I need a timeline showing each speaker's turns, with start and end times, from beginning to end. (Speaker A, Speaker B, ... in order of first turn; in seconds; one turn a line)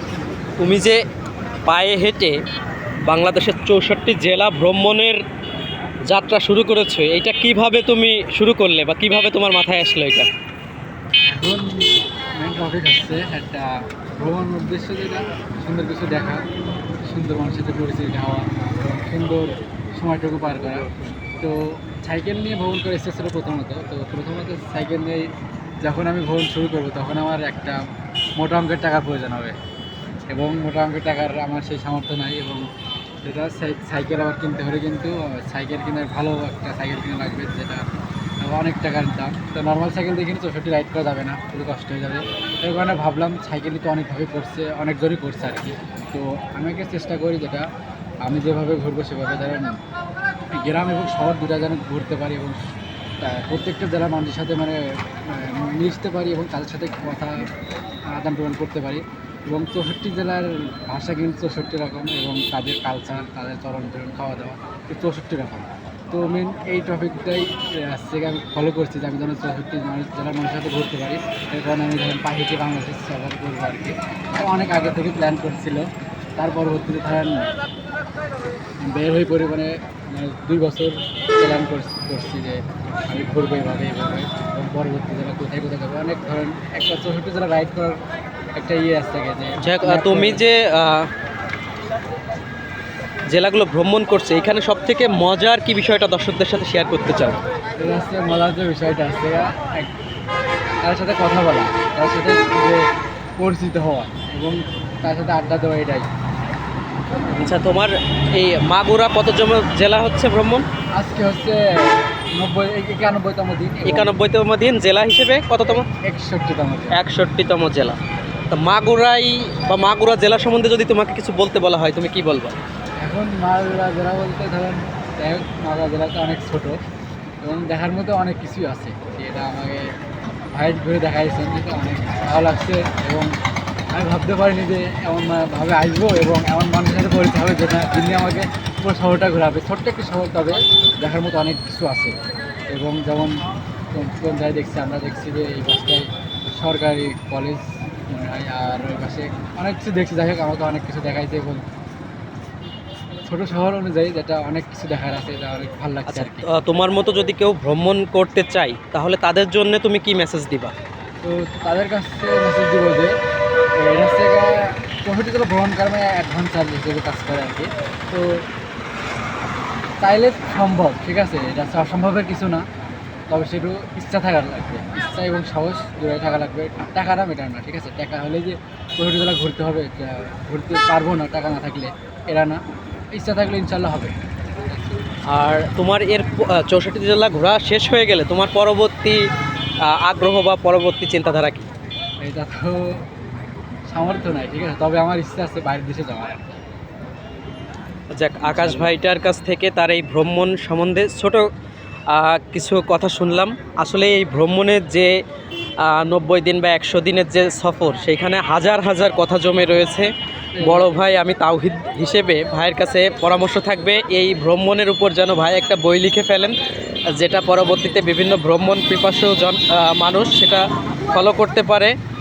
Speaker A: 0.6-1.0
Speaker A: 1.6-2.4
Speaker A: 3.0-5.2
Speaker A: 6.1-10.3
Speaker B: 11.3-16.4
Speaker B: 17.1-20.9
Speaker B: 21.4-25.3
Speaker B: 25.8-27.8
Speaker B: 28.4-29.6
Speaker B: 30.3-32.6
Speaker B: 33.2-37.8
Speaker B: 38.4-47.7
Speaker B: 48.2-49.8
Speaker B: 50.5-52.6
Speaker B: 53.2-57.4
Speaker B: 58.1-77.5
Speaker B: 78.8-88.0
Speaker B: 88.5-90.4
Speaker A: 89.6-91.1
Speaker A: 93.3-97.4
Speaker B: 97.8-99.9
Speaker B: 100.8-102.8
Speaker B: 103.4-106.1
Speaker A: 107.3-110.6
Speaker B: 111.0-114.2
Speaker A: 113.8-115.8
Speaker B: 116.0-117.0
Speaker A: 116.9-118.0
Speaker A: 118.5-122.5
Speaker B: 123.0-126.8
Speaker B: 127.4-129.8
Speaker B: 130.5-133.3
Speaker B: 133.9-142.2
Speaker B: 142.7-143.4
Speaker B: 143.9-151.7
Speaker B: 153.3-156.5
Speaker A: 156.1-160.7
Speaker B: 161.2-163.1
Speaker B: 163.8-168.4
Speaker B: 170.0-172.7
Speaker B: 173.3-182.6
Speaker B: 183.1-185.0
Speaker A: 185.3-189.2
Speaker A: 189.8-191.7
Speaker B: 192.2-193.1
Speaker B: 193.9-196.6
Speaker A: 198.1-201.5
Speaker B: 198.4-198.9
Speaker A: 202.1-205.1
Speaker A: 205.8-210.1
Speaker B: 210.5-211.0
Speaker A: 210.6-216.6
Speaker A: 217.1-221.9